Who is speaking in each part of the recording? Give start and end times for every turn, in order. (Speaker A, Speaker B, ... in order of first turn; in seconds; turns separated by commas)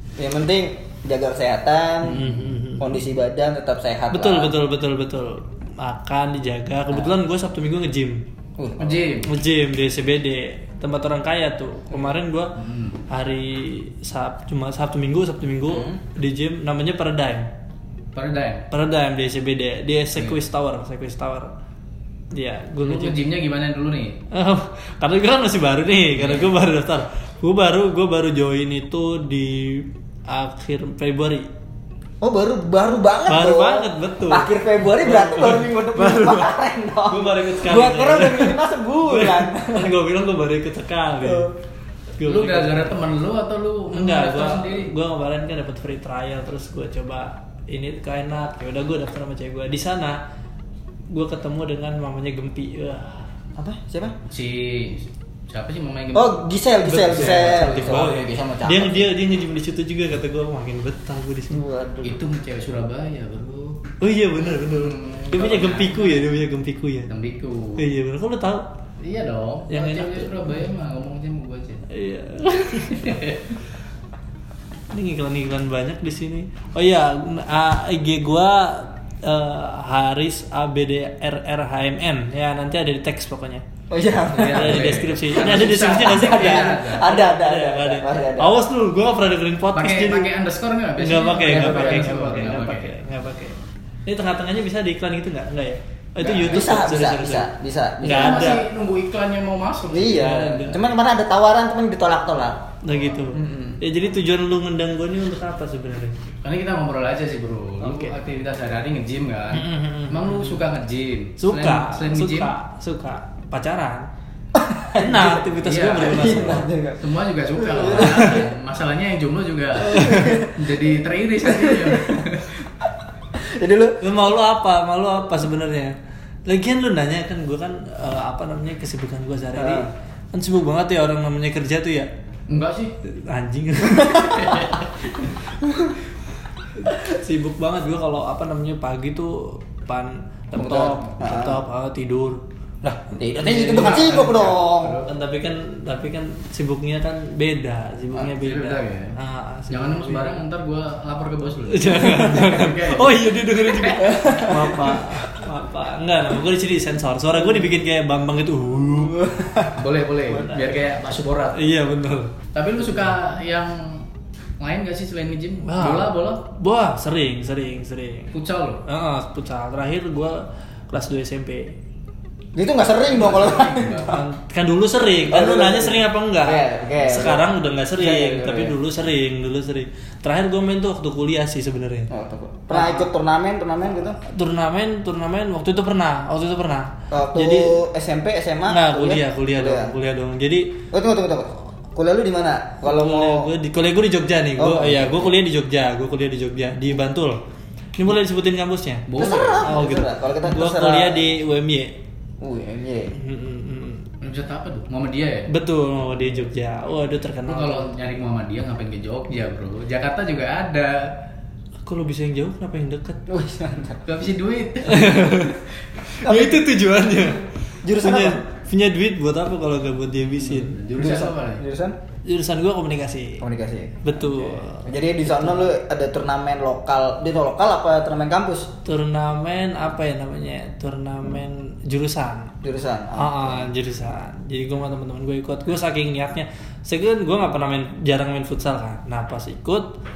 Speaker A: 0.2-4.5, Speaker B: 2.0-3.0, Speaker B: 4.1-8.2, Speaker A: 8.6-9.1, Speaker C: 8.8-9.3, Speaker B: 9.2-12.5, Speaker C: 12.6-13.0, Speaker B: 13.1-17.5, Speaker A: 15.7-16.0, Speaker C: 18.1-18.7, Speaker B: 18.7-21.5, Speaker B: 22.3-23.2, Speaker C: 22.8-24.2, Speaker B: 24.3-31.5, Speaker C: 26.1-26.5, Speaker A: 32.2-39.9, Speaker B: 33.3-36.5, Speaker B: 37.1-41.5, Speaker A: 41.2-41.5, Speaker B: 42.2-43.0, Speaker C: 42.2-44.9, Speaker B: 43.9-50.2, Speaker B: 51.1-53.2, Speaker A: 53.6-54.1, Speaker C: 54.3-56.4, Speaker A: 56.1-59.1, Speaker B: 56.8-61.6, Speaker C: 57.0-58.2, Speaker A: 61.5-62.2, Speaker C: 62.0-63.8, Speaker B: 64.0-67.1, Speaker C: 64.6-66.2, Speaker C: 67.1-67.8, Speaker B: 67.8-68.7, Speaker C: 69.0-71.8, Speaker B: 69.7-70.6, Speaker B: 71.9-73.2, Speaker C: 72.9-73.5, Speaker B: 74.9-83.6, Speaker A: 83.9-88.5, Speaker C: 84.3-87.1, Speaker B: 84.5-90.3, Speaker C: 89.7-92.9, Speaker B: 91.0-97.5, Speaker C: 96.2-96.7, Speaker A: 96.4-98.6, Speaker B: 98.0-98.7, Speaker C: 98.0-100.4, Speaker A: 99.9-102.6, Speaker B: 100.0-100.8, Speaker B: 102.8-106.2, Speaker A: 103.3-103.8, Speaker C: 106.4-112.5, Speaker B: 107.8-108.1, Speaker B: 109.5-110.6, Speaker B: 111.4-114.0, Speaker A: 114.5-115.4, Speaker B: 115.0-116.7, Speaker C: 115.6-122.6, Speaker A: 116.0-117.0, Speaker A: 117.6-118.5, Speaker B: 117.9-118.4, Speaker B: 119.9-120.4, Speaker A: 119.9-120.5, Speaker A: 121.5-122.2, Speaker A: 123.3-124.0, Speaker B: 124.0-132.1, Speaker A: 129.6-129.9, Speaker C: 132.5-132.9, Speaker B: 133.0-134.8, Speaker C: 134.3-134.8, Speaker B: 135.6-135.9, Speaker B: 136.8-142.4, Speaker A: 140.6-141.6, Speaker A: 142.8-145.0, Speaker B: 143.4-144.2, Speaker C: 143.5-145.1, Speaker B: 145.1-150.4, Speaker C: 148.4-149.2, Speaker C: 149.7-154.2, Speaker B: 151.7-159.2, Speaker A: 154.0-154.9, Speaker A: 159.0-159.7, Speaker C: 159.7-161.7, Speaker B: 161.5-162.4, Speaker C: 162.5-164.1, Speaker C: 164.6-166.4, Speaker B: 165.6-168.3, Speaker C: 168.3-168.8, Speaker B: 168.8-171.7, Speaker A: 172.6-174.2, Speaker C: 173.1-174.2, Speaker B: 174.0-182.1, Speaker A: 175.2-178.7, Speaker A: 182.1-184.2, Speaker B: 182.7-183.1, Speaker B: 184.2-187.8, Speaker A: 187.1-189.9, Speaker B: 188.7-190.8, Speaker A: 190.9-193.5, Speaker B: 192.9-197.4, Speaker A: 194.6-195.3, Speaker B: 198.0-199.1, Speaker C: 199.1-199.7, Speaker A: 199.2-201.3, Speaker B: 199.6-201.9, Speaker A: 202.4-203.1, Speaker B: 203.1-204.1, Speaker C: 204.2-205.5, Speaker B: 205.5-207.9, Speaker C: 207.5-211.1, Speaker B: 211.8-213.2, Speaker A: 213.3-214.0, Speaker C: 214.1-215.5, Speaker B: 214.8-220.8, Speaker A: 216.2-216.6, Speaker A: 217.8-218.4, Speaker C: 220.4-221.6, Speaker A: 220.9-221.9, Speaker B: 222.2-223.4, Speaker A: 223.4-228.7, Speaker B: 224.0-225.7, Speaker B: 228.8-232.5, Speaker A: 232.6-233.7, Speaker B: 233.2-239.9